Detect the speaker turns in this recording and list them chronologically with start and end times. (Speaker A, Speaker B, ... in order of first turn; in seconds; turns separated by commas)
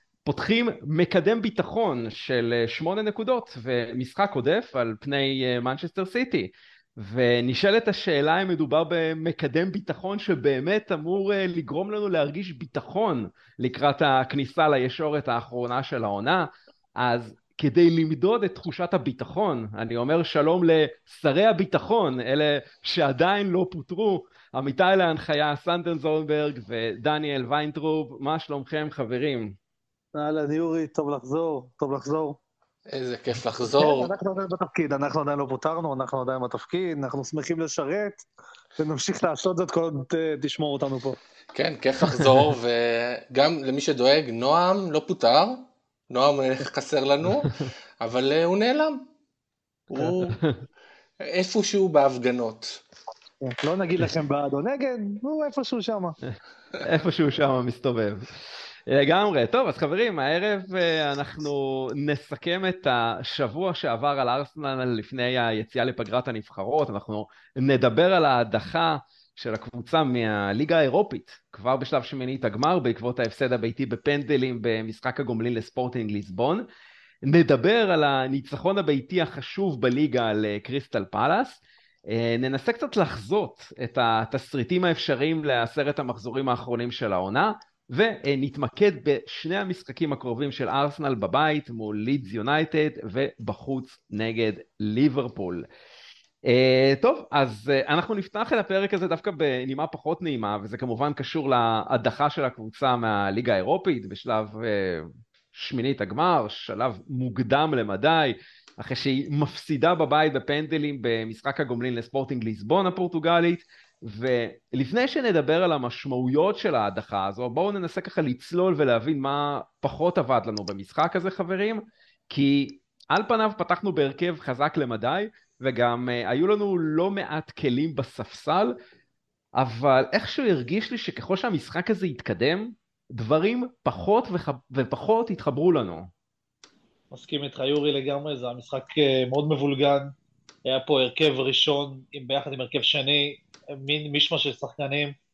Speaker A: 0.3-29.6, Speaker B: 30.1-32.4, Speaker C: 32.9-34.1, Speaker B: 33.6-38.3, Speaker B: 38.8-41.2, Speaker C: 41.5-49.1, Speaker C: 49.9-50.4, Speaker A: 50.3-50.6, Speaker C: 51.2-52.8, Speaker B: 53.4-56.2, Speaker A: 56.3-58.3, Speaker A: 58.9-76.7, Speaker A: 77.2-95.7, Speaker A: 96.5-128.8, Speaker A: 129.6-136.1, Speaker B: 137.1-140.1, Speaker B: 140.7-145.2